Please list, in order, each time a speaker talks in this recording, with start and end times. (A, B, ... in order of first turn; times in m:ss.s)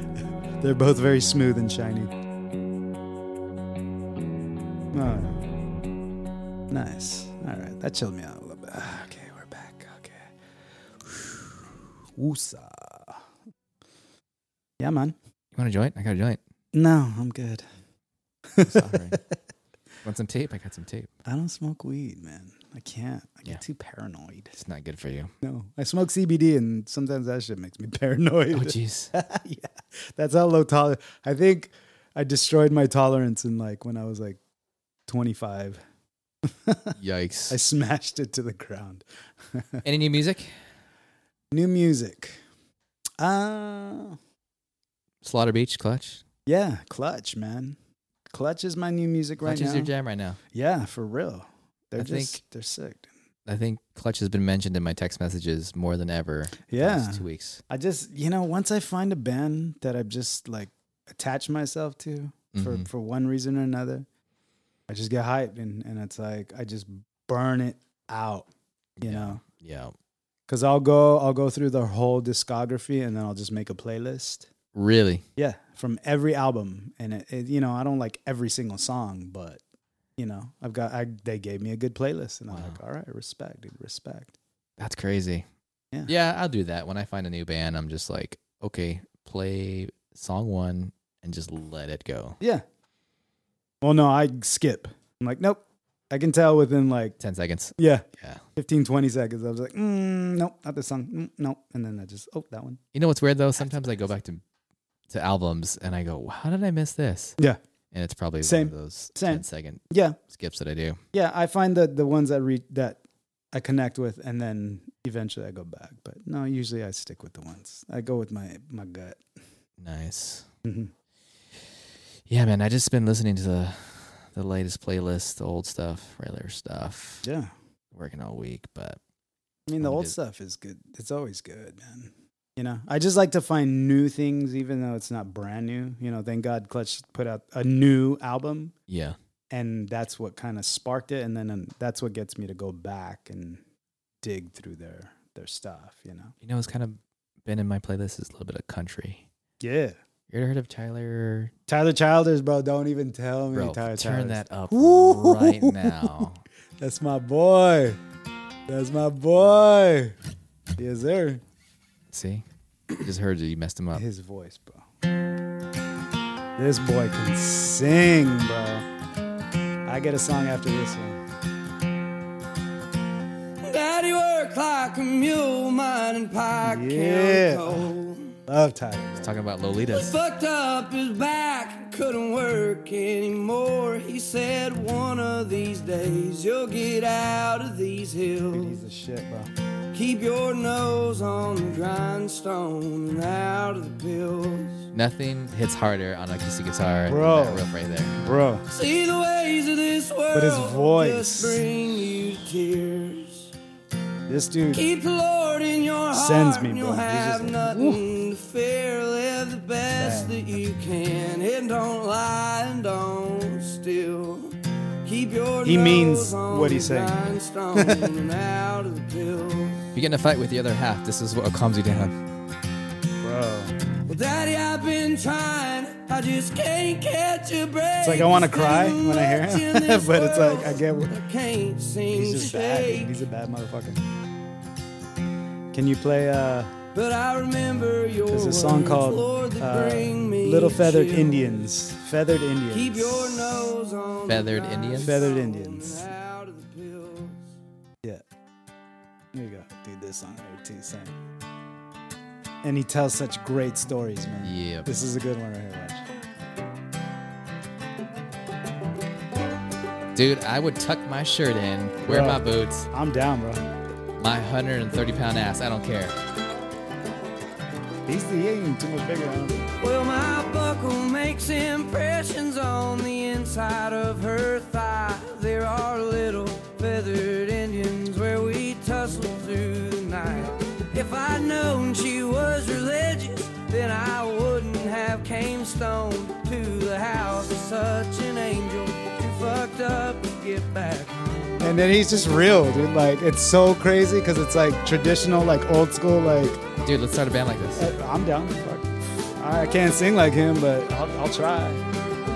0:00.6-0:02.1 A
0:04.9-0:05.4 A
0:06.7-0:10.3 A
0:11.0-0:13.2 A
0:14.8-0:15.1 A
0:15.5-0:16.4 B
0:16.7-0:17.6 A
0:18.5-0:19.2 A
0:18.6-0:19.2 B
0:20.0-0:21.1 B
0:21.2-0:24.5 A
0:24.5-0:25.3 B
0:25.4-0:34.4 A
0:28.5-0:29.1 B
0:35.1-0:35.8 A
0:36.6-0:37.0 A
0:37.0-0:37.6 B
0:37.5-0:39.8 A
0:39.8-0:40.5 B
0:41.5-0:42.4 A
0:43.2-0:44.2 A
0:45.2-0:46.2 B
0:46.4-0:47.8 A
0:48.3-0:49.9 A
0:49.4-0:50.4 B
0:50.5-0:53.1 A
0:52.0-0:52.4 B
0:53.4-0:57.6 B
0:56.7-1:04.0 A
1:02.5-1:02.9 B
1:04.9-1:08.5 A
1:09.0-1:09.9 B
1:09.0-1:09.4 A
1:10.5-1:14.5 A
1:14.7-1:15.2 B
1:15.4-1:19.6 A
1:20.2-1:24.3 A
1:22.5-1:22.8 B
1:24.8-1:25.4 B
1:26.1-1:32.4 B
1:33.8-1:37.2 A
1:37.2-1:38.4 B
1:37.8-1:38.0 A
1:38.6-1:42.8 A
1:42.9-1:44.4 B
1:45.1-1:47.4 B
1:47.9-1:51.0 B
1:48.4-1:50.2 A
1:51.1-1:53.0 A
1:53.5-1:59.2 A
1:59.8-2:00.5 B
2:00.6-2:00.9 A
2:02.3-2:07.2 B
2:07.2-2:07.5 A
2:07.9-2:09.0 B
2:09.7-2:18.7 A
2:09.8-2:10.1 B
2:18.9-2:19.2 B
2:19.5-2:23.6 A
2:24.2-2:26.3 A
2:26.4-2:29.2 B
2:29.6-2:30.0 A
2:30.3-2:31.5 B
2:31.7-2:36.1 A
2:33.5-2:36.4 B
2:36.8-2:38.0 A
2:38.7-2:40.2 A
2:40.8-2:41.4 A
2:42.1-2:42.4 B
2:43.0-2:44.0 B
2:43.9-2:44.8 A
2:46.6-2:48.8 A
2:49.8-2:51.2 A
2:53.6-2:58.3 C
2:56.6-2:57.9 A
2:58.5-2:59.4 A
2:59.2-3:00.2 B
2:59.9-3:08.8 C
3:08.5-3:09.5 A
3:09.9-3:14.9 C
3:14.9-3:18.2 B
3:17.1-3:18.6 A
3:18.7-3:23.5 C
3:20.3-3:21.6 A
3:24.3-3:24.8 A
3:24.7-3:39.8 C
3:26.1-3:28.0 A
3:29.9-3:30.3 A
3:35.6-3:38.1 A
3:39.9-3:42.2 B
3:43.2-3:43.7 A
3:44.0-3:53.2 C
3:48.0-3:51.1 A
3:52.1-3:54.0 A
3:55.7-3:56.7 A
3:56.9-4:01.6 C
3:58.3-4:03.7 A
4:02.7-4:07.5 C
4:04.2-4:05.3 B
4:05.0-4:06.1 A
4:09.3-4:11.1 A
4:12.6-4:16.0 A
4:14.4-4:14.9 B
4:20.1-4:22.9 B
4:22.0-4:23.6 A
4:24.2-4:26.2 B
4:28.1-4:29.6 A
4:29.8-4:51.6 C
4:51.6-4:56.6 A
4:56.8-4:57.9 B
4:57.8-5:01.8 A